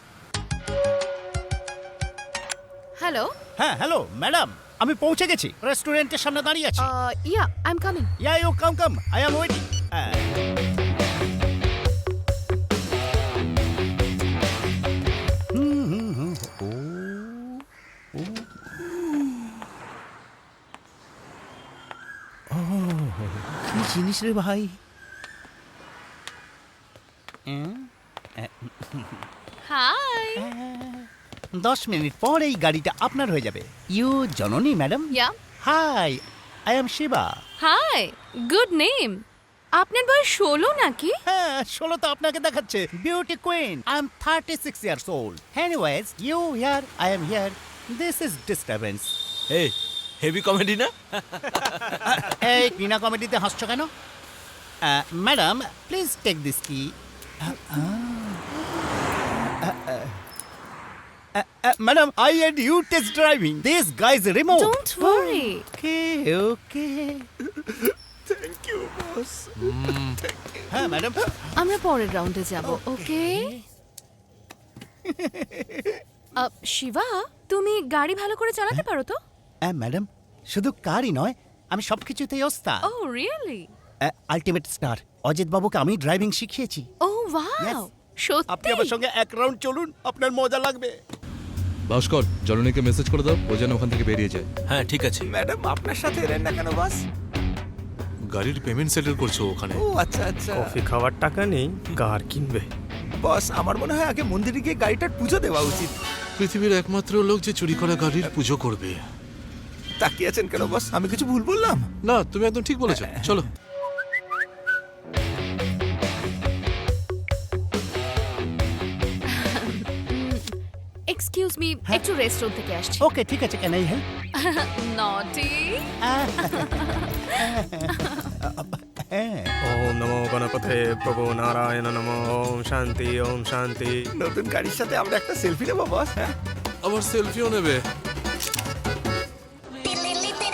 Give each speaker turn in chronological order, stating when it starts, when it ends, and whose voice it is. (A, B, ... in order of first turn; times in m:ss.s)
0:03.0-0:03.3 A
0:03.6-0:06.9 B
0:06.8-0:08.1 A
0:08.2-0:10.3 B
0:15.5-0:17.6 B
0:18.2-0:18.5 B
0:22.5-0:24.8 B
0:27.5-0:29.3 B
0:29.7-0:30.5 A
0:30.4-0:37.4 B
0:35.1-0:35.4 A
0:37.6-0:39.2 A
0:39.8-0:41.2 A
0:41.3-0:49.1 B
0:49.5-0:52.0 C
0:52.0-0:53.9 B
0:54.8-0:58.4 B
0:59.6-1:00.2 B
1:01.4-1:07.3 B
1:04.5-1:05.6 A
1:07.6-1:10.6 D
1:09.6-1:10.2 E
1:10.7-1:11.5 B
1:11.6-1:13.5 A
1:12.6-1:13.6 B
1:15.1-1:15.8 B
1:16.4-1:19.2 A
1:19.7-1:22.9 B
1:22.9-1:23.7 A
1:24.0-1:26.9 B
1:27.0-1:28.9 A
1:27.6-1:27.9 B
1:28.5-1:31.0 B
1:31.9-1:34.5 E
1:34.7-1:35.3 C
1:35.2-1:37.0 D
1:38.3-1:39.8 E
1:39.8-1:40.8 D
1:40.5-1:42.7 F
1:43.2-1:46.0 D
1:46.4-1:49.0 E
1:50.0-1:51.9 D
1:52.0-1:53.5 E
1:52.9-1:53.4 D
1:59.3-2:00.5 A
2:01.1-2:03.1 A
2:03.0-2:04.0 B
2:04.4-2:08.3 A
2:06.0-2:09.5 B
2:09.6-2:14.0 F
2:14.2-2:16.4 D
2:16.8-2:17.8 E